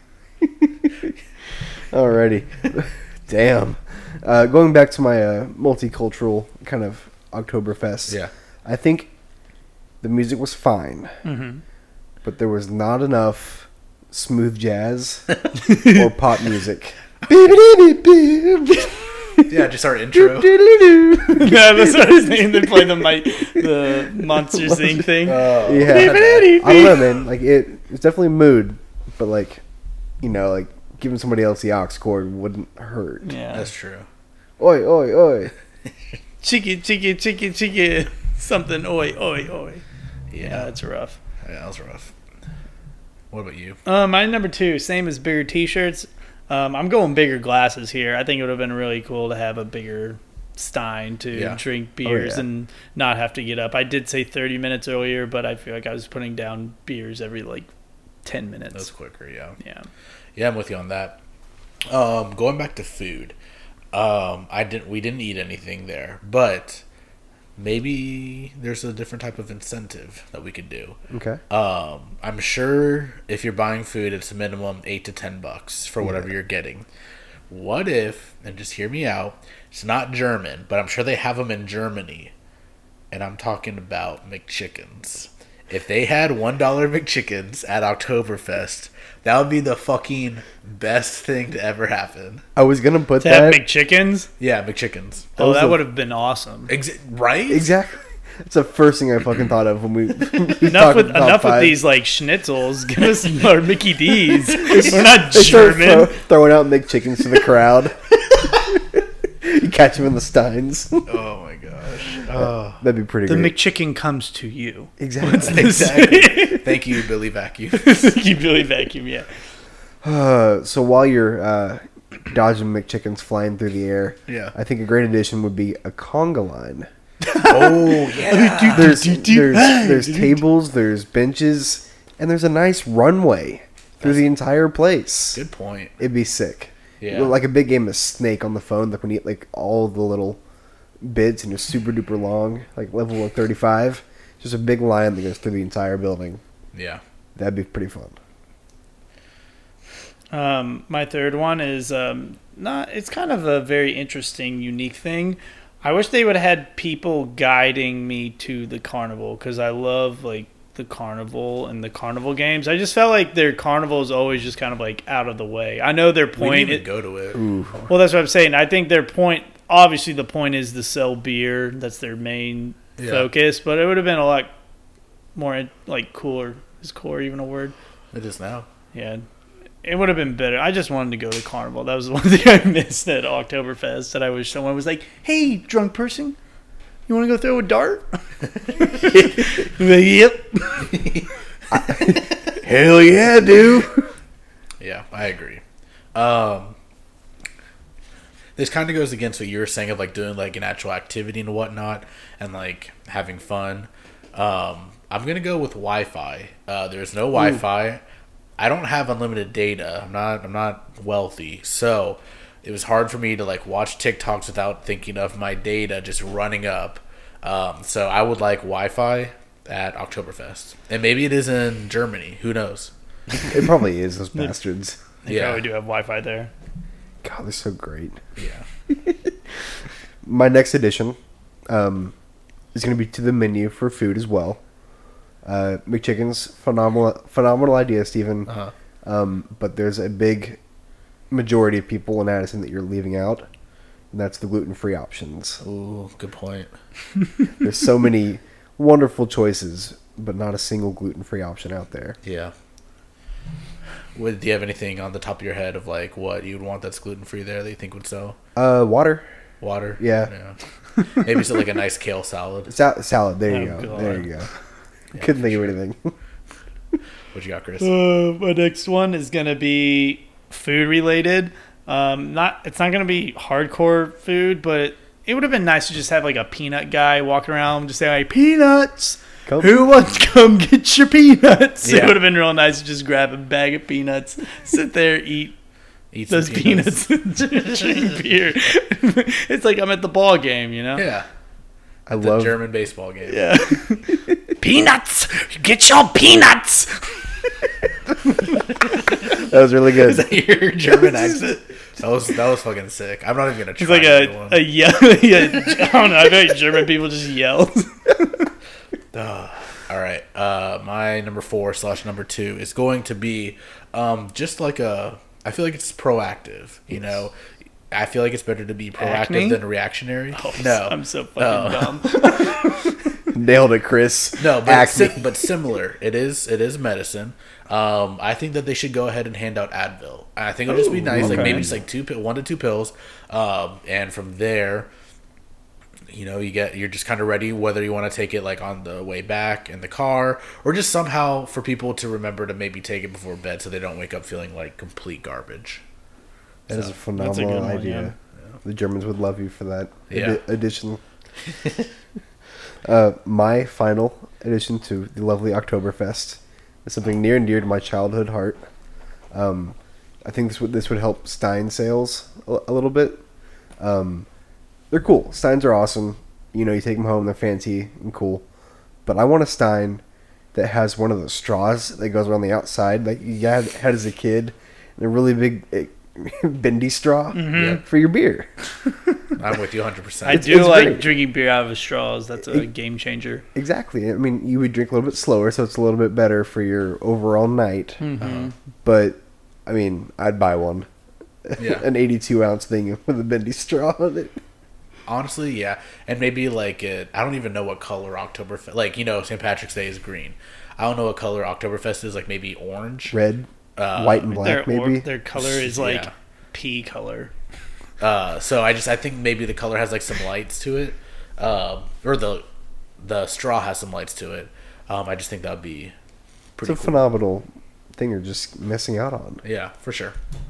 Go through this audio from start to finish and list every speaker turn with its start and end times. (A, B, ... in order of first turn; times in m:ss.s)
0:00.4-0:01.1 A
0:01.9-0:09.1 A
0:10.0-0:11.1 A
0:11.2-0:11.6 B
0:12.2-0:19.5 A
0:15.7-0:16.0 B
0:19.5-0:20.6 C
0:20.1-0:23.0 A
0:21.2-0:27.1 B
0:24.4-0:29.6 A
0:25.2-0:26.6 C
0:30.2-0:33.3 A
0:33.2-0:33.7 B
0:33.5-0:34.1 C
0:34.6-0:35.5 A
0:36.4-0:39.8 B
0:40.3-0:40.7 C
0:40.4-0:41.2 B
0:41.4-0:42.1 C
0:43.3-0:43.8 C
0:43.8-0:57.7 B
0:51.3-0:51.6 C
0:52.0-0:52.4 A
0:58.2-0:58.9 B
0:58.7-0:59.6 C
0:59.6-0:59.9 B
1:00.4-1:01.2 C
1:01.9-1:03.4 C
1:03.9-1:06.8 C
1:07.6-1:11.0 C
1:11.1-1:11.4 A
1:11.5-1:16.8 C
1:17.5-1:22.3 C
1:23.1-1:32.4 C
1:32.6-1:33.6 A
1:33.2-1:34.3 B
1:34.4-1:35.3 C
1:35.4-1:36.7 B
1:35.4-1:35.8 A
1:36.7-1:37.7 C
1:37.5-1:41.8 A
1:40.6-1:46.2 B
1:44.5-1:51.1 A
1:51.0-1:52.8 C
1:52.4-1:53.5 A
1:53.2-1:56.8 B
1:55.0-1:55.8 A
1:55.2-1:58.2 C
1:57.8-1:59.3 B
2:00.0-2:06.9 A
2:04.3-2:04.5 C
2:07.2-2:10.4 B
2:07.4-2:09.0 C
2:08.7-2:15.4 A
2:15.3-2:15.9 C
2:16.0-2:20.4 A
2:17.0-2:17.3 C
2:21.0-2:26.4 A
2:26.7-2:27.0 C
2:27.4-2:28.2 A
2:30.3-2:46.8 B
2:46.4-2:47.4 C
2:47.3-2:47.8 A
2:47.9-2:54.5 B
2:53.0-2:53.3 C
2:55.3-2:57.7 B
2:58.1-2:58.7 C
2:58.9-2:59.2 B
2:59.8-3:06.4 B
3:07.1-3:11.0 B
3:10.9-3:11.3 C
3:11.7-3:14.1 A
3:14.8-3:15.6 C
3:16.1-3:16.7 C
3:18.6-3:28.0 C
3:28.6-3:42.9 C
3:43.5-3:45.0 A
3:45.2-3:46.5 B
3:45.3-3:45.6 C
3:47.2-3:48.2 A
3:48.4-3:48.6 C
3:49.0-3:49.3 A
3:50.2-3:51.2 A
3:51.7-3:52.1 A
3:52.7-3:54.6 A
3:55.4-3:58.5 A
3:58.5-3:58.7 C
3:59.0-4:00.6 A
4:01.3-4:03.4 A
4:04.1-4:05.6 A
4:05.6-4:06.7 C
4:07.6-4:12.2 A
4:12.2-4:12.5 C
4:14.1-4:18.4 C
4:18.6-4:19.2 A
4:19.6-4:20.6 C
4:20.0-4:20.3 A
4:21.1-4:22.7 C
4:22.7-4:24.5 A
4:23.5-4:24.3 B
4:25.1-4:25.7 C
4:25.2-4:26.1 A
4:27.3-4:27.9 C
4:27.8-4:45.5 B
4:39.5-4:39.9 A
4:41.8-4:42.2 C
4:46.1-4:47.0 C
4:46.3-4:51.0 B
4:51.0-4:51.2 C
4:52.1-4:52.5 A
4:52.2-4:53.6 C
4:53.3-4:57.2 B
4:58.8-4:59.4 C
4:59.3-5:00.3 A
4:59.9-5:04.6 C
5:03.8-5:08.4 B
5:09.1-5:17.3 C
5:17.9-5:22.6 C
5:19.0-5:19.6 B
5:20.3-5:22.5 B
5:23.3-5:25.2 A
5:24.4-5:34.9 C
5:30.8-5:31.8 A
5:31.2-5:31.6 B
5:36.1-5:45.8 C
5:46.7-5:46.9 C
5:46.7-5:51.0 A
5:47.2-5:48.1 B
5:50.1-5:50.4 C
5:52.8-5:58.6 A
5:59.3-6:03.2 A
6:03.8-6:04.3 A
6:04.9-6:08.4 A
6:09.0-6:10.0 A
6:10.5-6:18.5 A
6:17.3-6:17.8 B
6:17.5-6:17.8 C
6:19.4-6:20.6 C
6:20.2-6:23.4 B
6:20.3-6:21.1 A
6:23.5-6:28.0 A
6:28.0-6:28.5 B
6:28.2-6:28.5 C
6:28.8-6:30.9 A
6:31.4-6:34.4 A
6:31.6-6:31.8 C
6:35.0-6:43.2 C
6:43.1-6:45.0 A
6:43.8-6:44.4 C
6:44.4-6:47.3 B
6:45.4-6:46.1 C
6:48.0-6:52.4 C
6:53.0-6:55.9 C
6:56.6-6:57.0 C
6:56.6-6:59.4 A
6:59.4-7:00.2 C